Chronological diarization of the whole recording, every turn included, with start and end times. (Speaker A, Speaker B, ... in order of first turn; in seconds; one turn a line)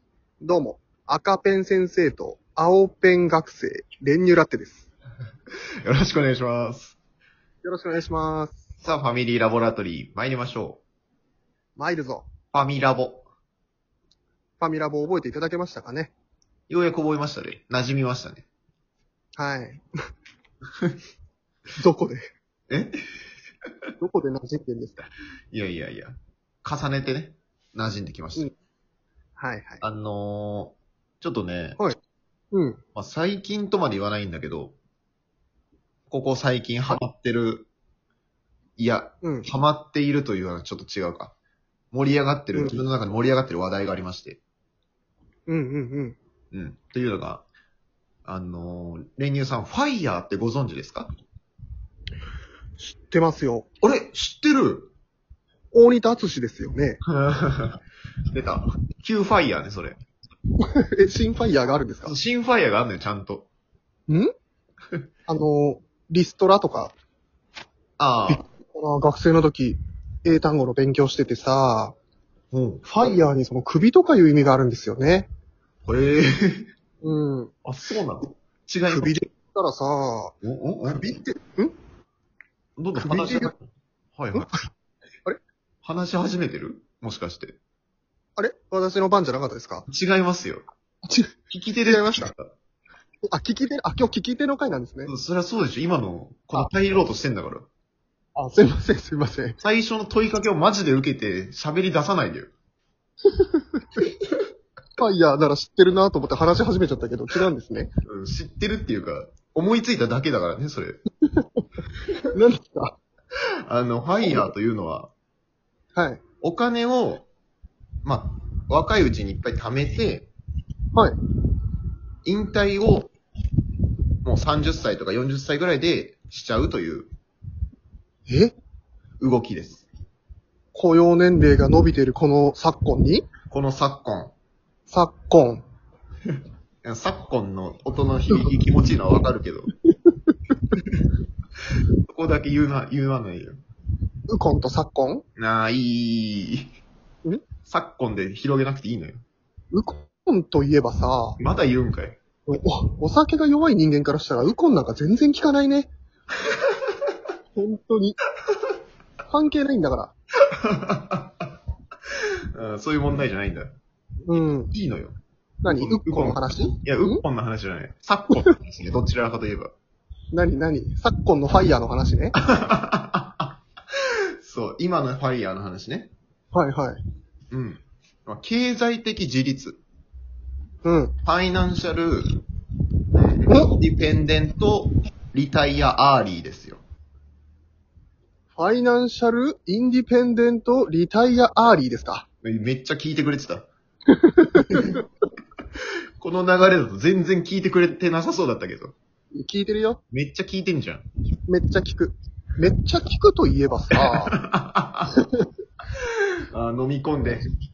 Speaker A: 0.4-4.9
Speaker B: 5.8-7.0
Speaker A: 7.6-8.7
Speaker B: 8.8-10.8
Speaker A: 11.8-12.3
Speaker B: 12.5-13.2
Speaker A: 14.6-16.1
Speaker B: 16.7-18.4
Speaker A: 19.4-19.9
Speaker A: 21.8-22.2
Speaker B: 22.7-22.9
Speaker A: 24.0-25.0
Speaker B: 25.0-28.5
Speaker A: 29.4-29.8
Speaker B: 29.8-31.8
Speaker A: 32.5-32.8
Speaker B: 32.9-34.8
Speaker B: 36.1-37.7
Speaker B: 38.8-41.3
Speaker B: 41.9-44.4
Speaker A: 45.5-46.2
Speaker B: 46.5-47.5
Speaker B: 48.2-51.1
Speaker A: 52.8-53.7
Speaker B: 53.8-54.9
Speaker A: 55.7-57.0
Speaker B: 57.1-57.8
Speaker B: 58.3-60.0
Speaker A: 60.6-62.1
Speaker B: 62.0-63.5
Speaker A: 65.3-66.9
Speaker B: 68.0-68.4
Speaker A: 68.3-72.0
Speaker B: 72.5-72.8
Speaker A: 72.8-75.3
Speaker B: 75.8-76.7
Speaker A: 77.0-77.5
Speaker B: 77.6-79.2
Speaker A: 78.9-80.3
Speaker B: 80.4-81.1
Speaker A: 80.9-81.7
Speaker B: 82.8-84.6
Speaker A: 83.0-83.5
Speaker B: 85.8-87.6
Speaker A: 88.4-89.8
Speaker B: 89.9-90.6
Speaker B: 91.5-92.5
Speaker A: 91.8-92.3
Speaker A: 93.3-95.1
Speaker B: 95.0-97.7
Speaker A: 98.3-99.6
Speaker B: 99.6-102.5
Speaker A: 103.4-104.0
Speaker A: 105.0-107.9
Speaker B: 108.1-111.0
Speaker A: 111.3-111.6
Speaker A: 112.3-113.0
Speaker B: 113.7-115.1
Speaker A: 116.0-116.2
Speaker B: 116.4-117.2
Speaker B: 118.0-120.3
Speaker B: 122.2-123.1
Speaker B: 124.2-127.1
Speaker A: 128.3-128.6
Speaker B: 129.2-129.8
Speaker A: 130.7-133.3
Speaker B: 133.5-134.3
Speaker A: 134.9-135.6
Speaker B: 136.8-139.7
Speaker B: 142.1-143.6
Speaker A: 144.3-145.2
Speaker B: 145.4-146.7
Speaker B: 147.6-149.2
Speaker A: 149.7-151.4
Speaker B: 151.4-152.2
Speaker A: 152.5-155.9
Speaker A: 157.5-158.2
Speaker A: 159.3-160.1
Speaker B: 160.6-161.5
Speaker B: 162.1-163.7
Speaker A: 164.3-164.7
Speaker B: 164.7-165.2
Speaker A: 165.6-167.2
Speaker B: 165.7-169.7
Speaker A: 170.3-172.3
Speaker B: 172.4-173.5
Speaker B: 174.4-176.1
Speaker A: 176.5-177.0
Speaker B: 177.5-179.8
Speaker A: 180.8-181.1
Speaker B: 181.2-182.3
Speaker B: 183.1-186.8
Speaker A: 188.6-192.2
Speaker B: 192.4-193.7
Speaker A: 194.2-195.0
Speaker B: 196.2-198.9
Speaker A: 199.3-200.0
Speaker B: 200.1-201.1
Speaker A: 201.5-204.3
Speaker B: 204.3-205.1
Speaker B: 206.0-207.5